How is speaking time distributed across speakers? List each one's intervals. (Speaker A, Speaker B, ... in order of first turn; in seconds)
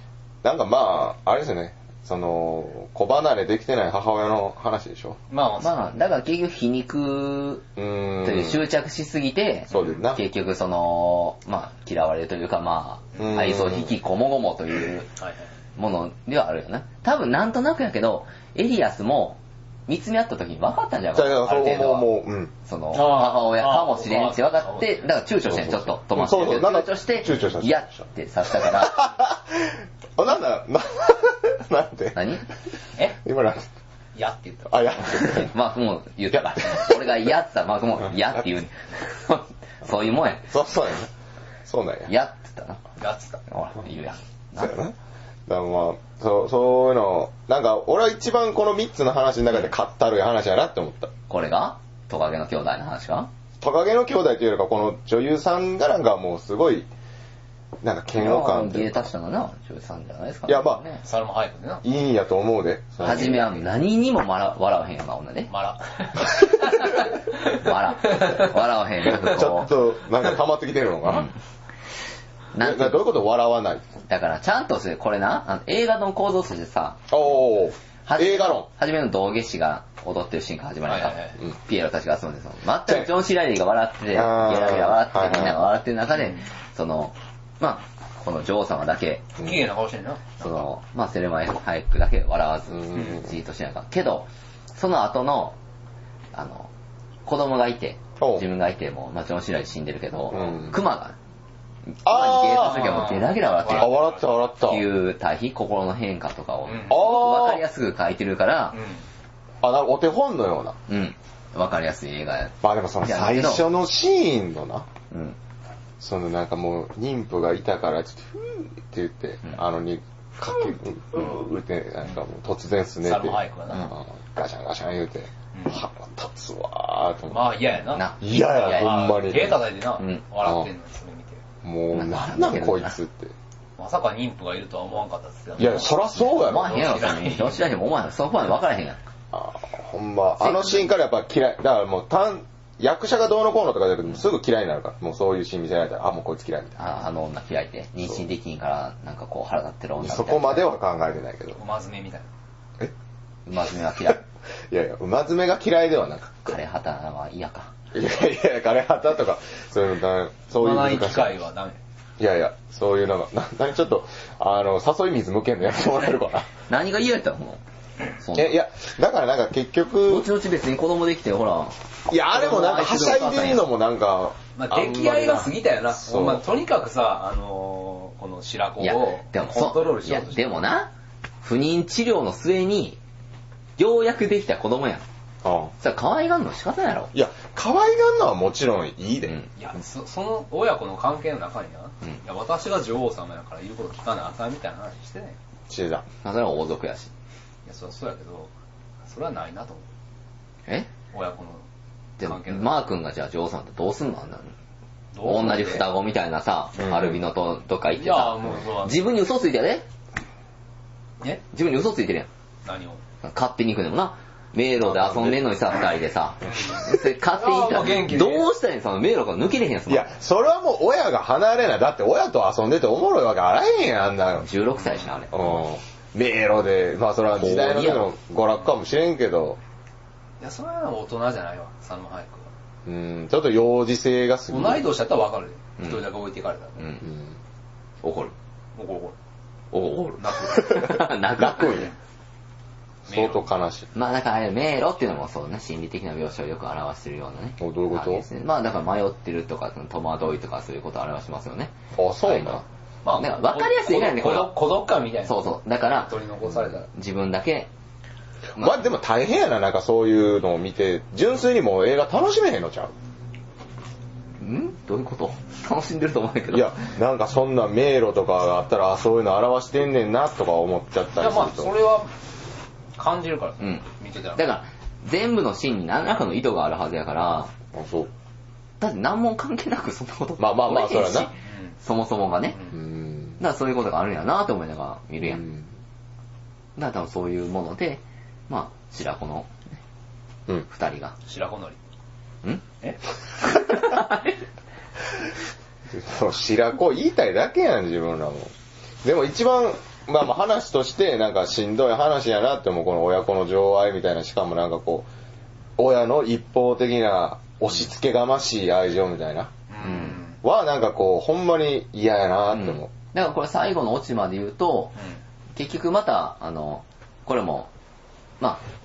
Speaker A: 0.4-5.2, 7.8-8.7, 9.7-10.2, 13.2-13.9, 21.1-22.5, 25.5-32.2, 33.2-33.7, 34.7-35.5, 36.3-37.3, 40.5-41.1, 41.6-42.1, 44.6-44.9, 45.5-51.1, 53.6-56.9, 57.8-59.1, 60.5-60.8, 61.8-63.4, 69.2-71.3, 72.6-73.8, 77.1-78.7, 84.1-85.7, 92.7-93.3, 98.2-98.4, 100.3-100.8, 102.0-103.2, 103.7-104.9, 106.9-107.6, 109.6-110.8, 112.6-114.9, 116.0-127.5, 128.2-129.7, 130.4-130.7, 131.6-133.3, 135.6-136.8, 139.3-147.0, 150.0-151.6, 154.7-156.6, 157.9-161.4, 162.2-166.5, 168.3-170.3, 172.1-176.4, 185.4-185.7, 187.1-189.4, 195.7-196.1, 206.8-207.2, 214.8-215.4, 219.9-224.5, 225.3-229.6, 232.9-234.8, 237.0-237.4, 240.5-241.9, 243.1-243.9, 247.6-248.3, 251.9-252.6, 258.6-262.9, 266.5-271.7, 277.7-278.1, 280.4-281.3, 282.7-283.4, 285.3-285.7, 295.9-298.5, 299.0-305.1, 305.8-312.9
Speaker B: 5.3-6.0, 15.2-15.5, 22.9-25.1, 34.1-34.9, 43.0-43.4, 61.0-61.9, 63.1-63.4, 65.5-69.4, 80.9-81.4, 86.1-86.4, 89.4-90.6, 102.7-104.4, 106.7-107.0, 108.7-109.0, 123.0-123.9, 125.5-125.8, 127.3-131.4, 133.8-137.7, 151.6-152.3, 160.5-161.8, 174.6-180.6, 189.6-195.4, 197.7-198.5, 199.1-199.8, 201.1-201.6, 202.2-202.8, 205.1-205.9, 208.0-209.1, 212.7-213.0, 216.5-218.5, 230.4-232.5, 234.5-236.9, 238.8-239.2, 240.2-240.6, 243.1-243.5, 253.0-256.9, 271.2-272.1, 272.9-274.4, 281.4-281.8, 291.2-291.8, 309.7-310.4
Speaker C: 5.6-7.7, 8.2-15.1, 15.8-22.1, 22.6-29.1, 32.1-32.4, 35.1-40.5, 42.1-42.8, 43.5-44.8, 51.3-53.3, 58.1-61.0, 63.0-65.5, 66.5-69.7, 71.0-71.4, 72.5-73.0, 74.1-77.3, 78.1-89.4, 90.4-95.6, 96.3-96.7, 97.2-101.2, 102.0-104.0, 104.6-108.8, 110.9-113.7, 115.1-115.4, 127.9-129.0, 130.0-130.2, 131.9-133.0, 136.1-139.0, 140.4-140.9, 146.8-150.7, 153.5-154.2, 156.4-157.7, 166.7-167.6, 168.2-168.6, 170.1-171.8, 172.3-173.7, 178.8-180.9, 181.4-183.0, 183.8-185.0, 185.8-187.1, 196.2-197.1, 202.2-204.5, 205.2-209.8, 211.5-212.3, 213.2-220.1, 224.4-225.6, 227.3-228.1, 235.8-236.1, 238.0-238.3, 239.7-241.9, 243.9-254.5, 255.2-256.1, 256.9-257.7, 264.4-266.8, 273.6-277.5, 278.8-282.6, 283.4-285.5, 286.8-289.6, 290.7-291.1, 293.4-294.4, 309.8-310.1, 312.5-314.9, 315.6-317.7